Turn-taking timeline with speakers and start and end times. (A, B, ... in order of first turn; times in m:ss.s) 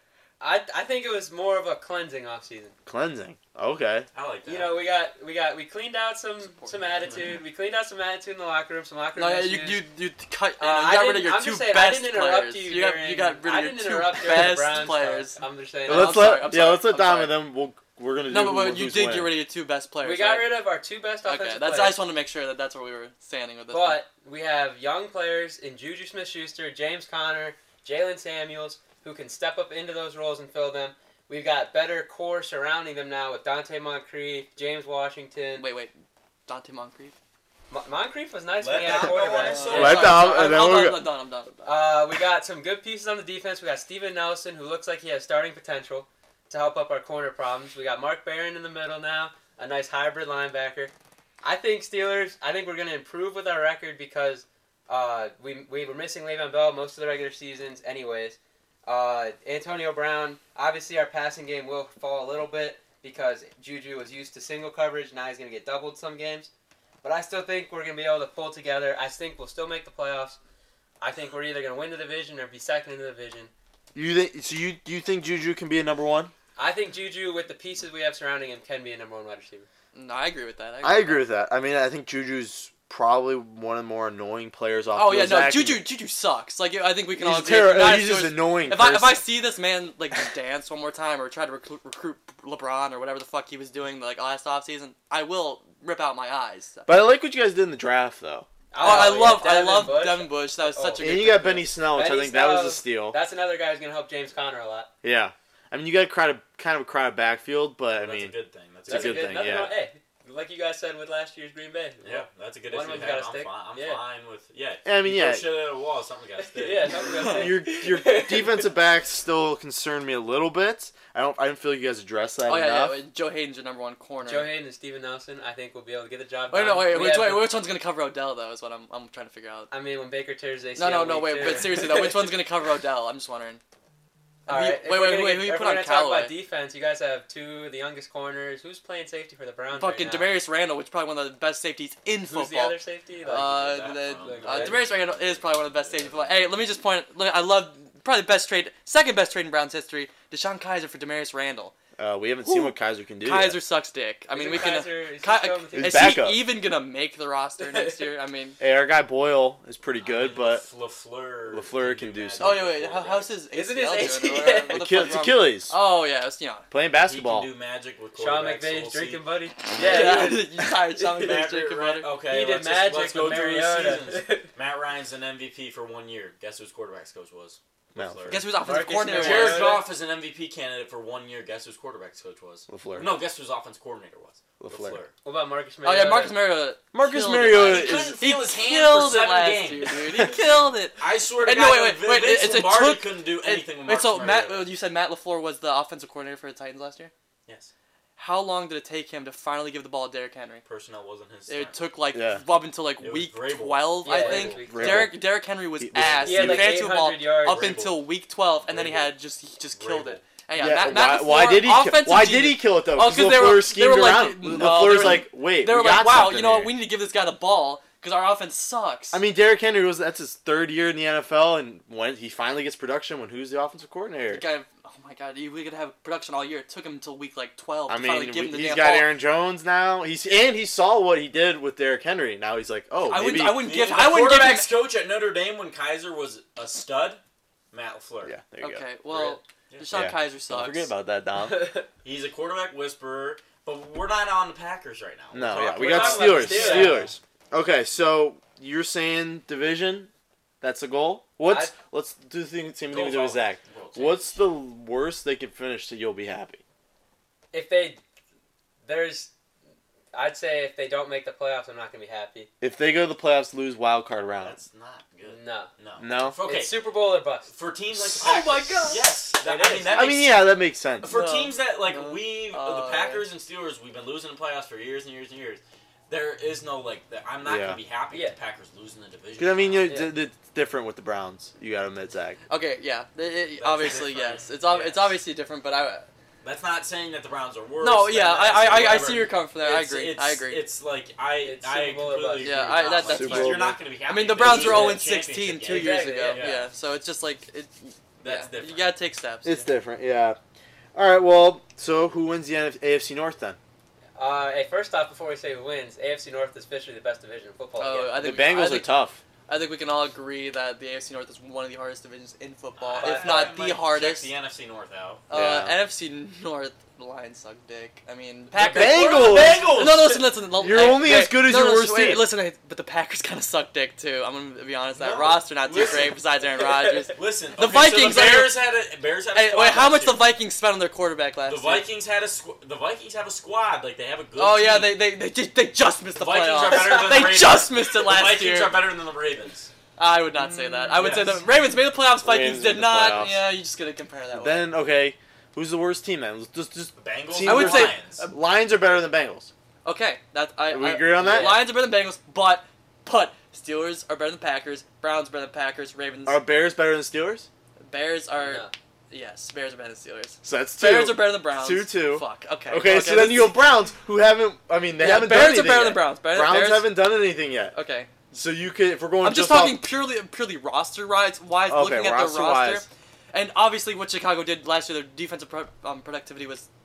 0:00.4-0:02.7 A
0:02.9-0:04.1 B
0:04.1-0:04.7 C
0:04.4-0:09.8 A
0:09.2-0:17.4 D
0:10.6-0:16.4 A
0:15.9-0:19.3 B
0:18.3-0:20.6 D
0:20.0-0:22.0 A
0:21.2-0:24.0 D
0:23.7-0:35.6 A
0:35.6-0:35.9 D
0:36.5-0:37.1 D
0:37.7-0:40.2 A
0:38.6-0:40.3 C
0:38.8-0:41.5 D
0:39.7-0:41.1 B
0:41.6-1:06.5 A
1:07.0-1:10.4 A
1:11.0-1:13.5 A
1:13.9-1:16.3 B
1:16.6-1:19.7 A
1:19.9-1:21.2 D
1:20.8-1:25.9 B
1:24.9-1:36.9 D
1:27.1-1:29.2 B
1:36.9-1:38.5 B
1:38.7-1:44.9 A
1:38.8-1:41.6 D
1:41.0-1:43.2 B
1:45.0-1:49.7 B
1:48.0-1:49.6 C
1:48.9-1:54.0 A
1:52.0-1:57.1 C
1:54.8-1:55.4 B
1:56.4-1:58.7 A
1:57.1-2:03.0 B
2:02.4-2:04.5 D
2:04.2-2:07.5 A
2:06.5-2:09.7 D
2:09.7-2:12.3 A
2:10.8-2:13.6 D
2:14.5-2:16.3 D
2:14.5-2:20.3 A
2:19.7-2:31.7 D
2:22.2-2:24.8 A
2:23.2-2:26.5 C
2:32.0-2:33.6 B
2:32.4-2:38.6 D
2:34.3-2:36.2 A
2:35.7-2:36.4 B
2:37.6-2:38.0 A
2:38.6-2:40.6 B
2:40.0-2:43.4 C
2:41.5-2:42.7 B
2:42.4-2:46.6 D
2:43.5-2:45.2 A
2:44.7-2:45.7 B
2:46.7-2:47.5 B
2:47.0-2:49.2 C
2:48.2-2:51.4 A
2:49.7-2:52.1 D
2:51.2-3:05.1 C
2:52.2-2:54.5 A
2:57.9-2:58.4 B
2:58.3-2:59.7 D
2:58.6-2:59.9 A
3:02.7-3:03.1 B
3:04.6-3:05.0 B
3:05.2-3:06.3 A
3:05.8-3:17.1 D
3:06.9-3:08.2 B
3:07.5-3:10.2 C
3:11.0-3:14.7 C
3:18.2-3:20.6 D
3:20.6-3:21.8 C
3:21.5-3:39.2 D
3:22.1-3:22.4 B
3:23.0-3:24.6 C
3:24.0-3:25.1 A
3:24.6-3:25.2 B
3:25.8-3:26.8 B
3:26.2-3:27.8 A
3:27.4-3:29.1 C
3:29.7-3:30.2 C
3:30.5-3:36.7 B
3:39.1-3:44.4 B
3:44.3-3:49.1 D
3:47.9-3:53.7 B
3:53.0-3:54.7 D
3:53.2-3:57.2 C
3:57.7-3:58.4 C
3:58.2-3:58.8 B
3:58.6-4:00.9 D
3:59.1-4:00.0 C
3:59.9-4:01.7 B
4:01.4-4:01.9 A
4:02.0-4:07.2 C
4:05.3-4:10.1 B
4:05.7-4:07.1 A
4:10.6-4:16.6 B
4:11.4-4:11.7 A
4:12.9-4:14.4 C
4:17.5-4:18.0 A
4:18.8-4:19.3 A
4:20.1-4:22.5 A
4:22.6-4:24.6 B
4:24.4-4:26.7 C
4:25.2-4:25.7 A
4:26.0-4:26.4 B
4:26.4-4:27.5 A
4:27.4-4:30.5 C
4:27.9-4:28.2 B
4:28.2-4:29.0 D
4:29.4-4:30.2 A
4:29.9-4:31.1 B
4:31.0-4:39.9 C
4:31.0-4:33.2 D
4:37.4-4:37.8 B
4:39.4-4:42.4 B
4:42.5-4:46.1 D
4:43.6-4:45.2 C
4:46.4-4:56.7 C
4:47.8-4:50.6 D
4:51.4-4:52.9 A
4:52.4-4:59.7 D
4:53.1-4:53.8 B
4:54.4-4:55.0 B
4:55.6-4:56.5 A
4:58.2-4:58.9 C
4:59.4-5:00.4 B
5:00.9-5:03.6 B
5:04.2-5:08.2 A
5:07.8-5:08.9 D
5:08.2-5:09.2 B
5:09.5-5:14.3 D
5:12.8-5:15.2 C
5:13.0-5:13.6 A
5:15.3-5:28.6 D
5:15.3-5:15.8 B
5:18.5-5:20.4 C
5:18.6-5:19.7 B
5:20.6-5:22.3 B
5:25.0-5:26.2 C
5:27.1-5:30.2 C
5:29.4-5:31.9 D
5:31.5-5:35.0 C
5:34.4-5:38.8 D
5:36.2-5:39.7 C
5:36.7-5:37.2 A
5:40.0-5:44.7 D
5:40.4-5:41.2 B
5:41.0-5:41.4 C
5:42.2-5:43.5 B
5:44.3-5:49.5 B
5:47.0-5:48.2 C
5:47.4-5:48.3 D
5:49.8-5:56.4 D
5:50.7-5:51.7 B
5:51.2-5:51.5 A
5:56.2-5:57.5 B
5:57.8-6:03.6 D
5:58.4-5:58.7 A
6:00.4-6:07.7 B
6:05.0-6:07.0 D
6:07.7-6:08.1 D
6:08.3-6:09.8 B
6:09.2-6:16.7 D
6:11.7-6:12.8 B